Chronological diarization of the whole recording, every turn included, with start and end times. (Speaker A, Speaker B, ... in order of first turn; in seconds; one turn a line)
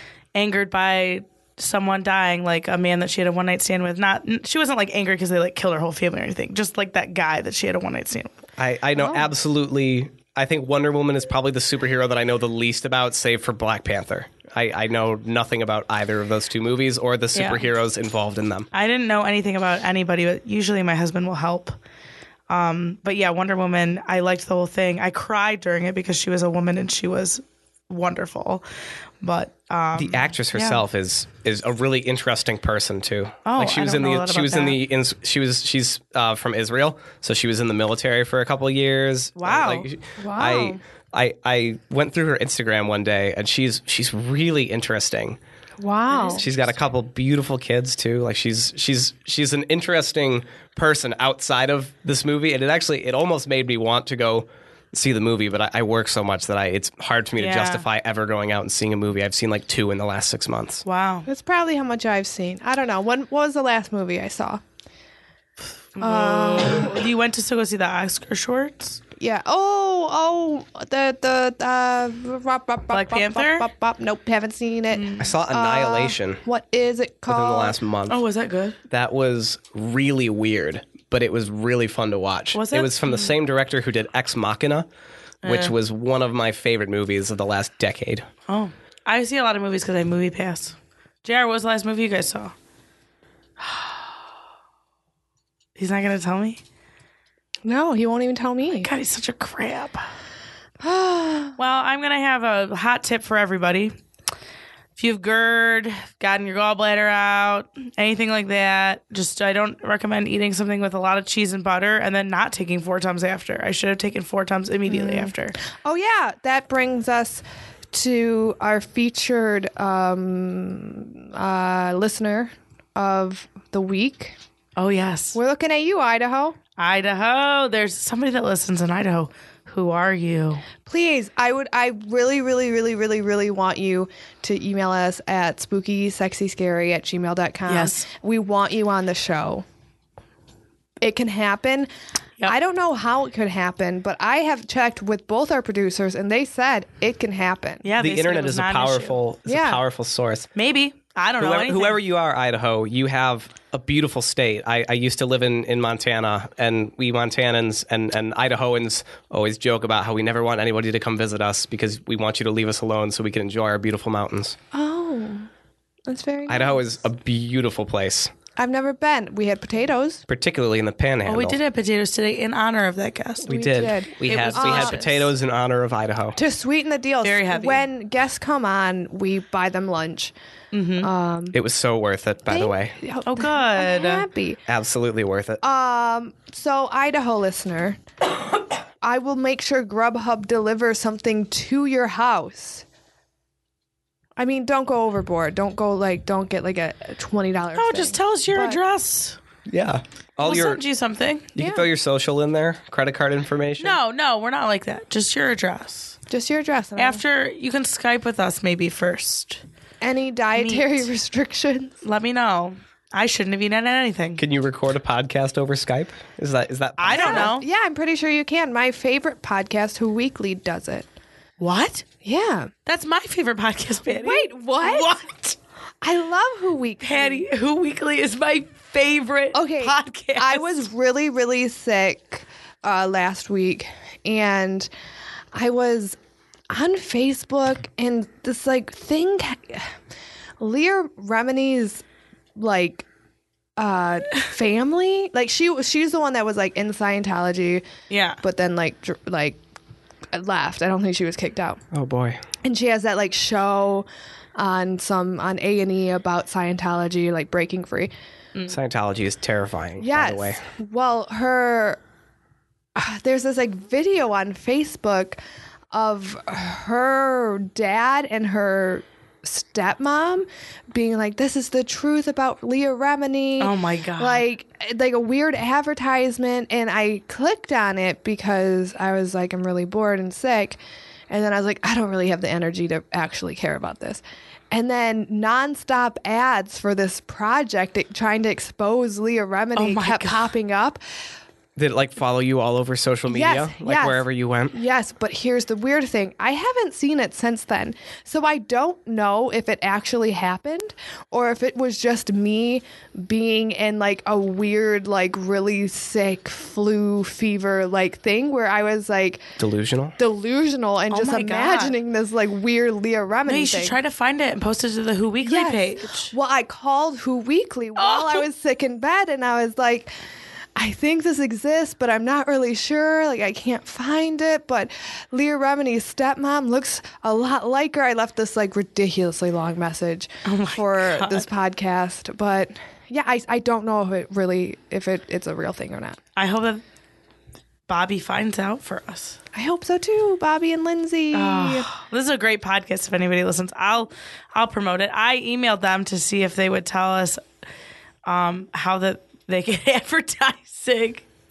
Speaker A: 0.3-8.3
Speaker B: 8.6-18.7
Speaker C: 9.0-9.3
Speaker A: 17.3-17.6
Speaker A: 18.7-21.8
Speaker A: 22.5-28.6
Speaker A: 29.2-30.8
Speaker B: 29.9-45.4
Speaker A: 33.5-34.8
Speaker A: 39.4-39.9
Speaker C: 40.2-40.8
Speaker C: 45.8-46.4
Speaker A: 46.1-46.4
Speaker B: 46.3-60.8
Speaker A: 57.4-57.8
Speaker A: 60.8-61.3
Speaker C: 61.2-64.6
Speaker A: 65.9-69.0
Speaker C: 66.0-67.0
Speaker C: 69.2-77.8
Speaker A: 72.9-73.7
Speaker A: 74.9-75.3
Speaker B: 75.2-76.4
Speaker B: 77.3-78.2
Speaker A: 78.1-78.8
Speaker B: 78.9-84.9
Speaker A: 82.5-83.3
Speaker A: 85.4-85.7
Speaker B: 85.4-88.2
Speaker A: 88.5-92.5
Speaker A: 93.6-93.9
Speaker A: 95.8-96.6
Speaker C: 97.6-98.9
Speaker A: 98.8-100.0
Speaker C: 100.8-101.5
Speaker A: 101.6-103.9
Speaker A: 105.0-115.5
Speaker C: 114.9-124.3
Speaker A: 124.8-125.4
Speaker C: 125.3-126.6
Speaker A: 126.8-130.6
Speaker C: 130.8-139.6
Speaker A: 137.7-138.1
Speaker C: 141.0-141.9
Speaker C: 142.4-147.9
Speaker A: 147.8-149.2
Speaker B: 148.0-150.5
Speaker C: 149.4-149.8
Speaker A: 150.6-152.0
Speaker B: 151.4-164.6
Speaker C: 164.7-165.5
Speaker C: 166.1-166.9
Speaker B: 166.5-168.3
Speaker C: 168.6-170.2
Speaker B: 170.3-171.6
Speaker A: 171.3-173.5
Speaker B: 173.4-176.4
Speaker C: 173.5-175.1
Speaker A: 174.2-175.2
Speaker C: 176.3-180.3
Speaker A: 177.2-177.8
Speaker A: 180.7-181.1
Speaker C: 181.0-181.6
Speaker B: 181.5-182.9
Speaker C: 182.5-184.6
Speaker A: 183.2-184.2
Speaker B: 184.7-185.6
Speaker C: 185.6-188.0
Speaker C: 189.0-192.8
Speaker C: 194.4-198.8
Speaker A: 197.7-199.4
Speaker B: 199.7-200.8
Speaker A: 200.4-201.5
Speaker B: 201.5-204.0
Speaker C: 201.6-201.9
Speaker A: 203.8-206.2
Speaker C: 206.3-207.2
Speaker A: 207.0-209.6
Speaker C: 210.0-211.9
Speaker A: 210.6-211.1
Speaker A: 212.0-214.4
Speaker B: 214.4-217.5
Speaker A: 217.0-217.7
Speaker C: 217.1-221.1
Speaker A: 221.6-222.0
Speaker C: 222.2-222.7
Speaker A: 222.8-225.6
Speaker C: 224.1-225.1
Speaker C: 226.0-227.4
Speaker A: 227.0-230.8
Speaker C: 229.5-234.9
Speaker C: 235.5-236.2
Speaker C: 236.7-239.9
Speaker C: 240.6-242.0
Speaker C: 242.6-243.1
Speaker C: 243.8-247.8
Speaker A: 248.1-248.4
Speaker C: 248.4-249.6
Speaker C: 250.3-251.8
Speaker B: 251.9-252.4
Speaker C: 252.6-254.1
Speaker C: 254.6-258.1
Speaker B: 258.7-260.6
Speaker C: 260.0-262.0
Speaker C: 262.9-265.4
Speaker C: 265.9-280.8
Speaker A: 273.6-274.4
Speaker C: 281.3-291.0
Speaker A: 289.8-290.5
Speaker B: 291.8-294.7
Speaker C: 293.3-309.4
Speaker B: 309.6-310.2
Speaker C: 310.2-313.9
Speaker A: 311.1-311.9
Speaker A: 313.5-316.3
Speaker C: 315.4-320.1
Speaker A: 318.0-318.4
Speaker C: 320.8-336.2
Speaker A: 330.4-331.5
Speaker A: 336.4-336.8
Speaker A: 337.9-339.4
Speaker C: 339.5-341.9
Speaker A: 341.3-347.4
Speaker A: 348.2-351.2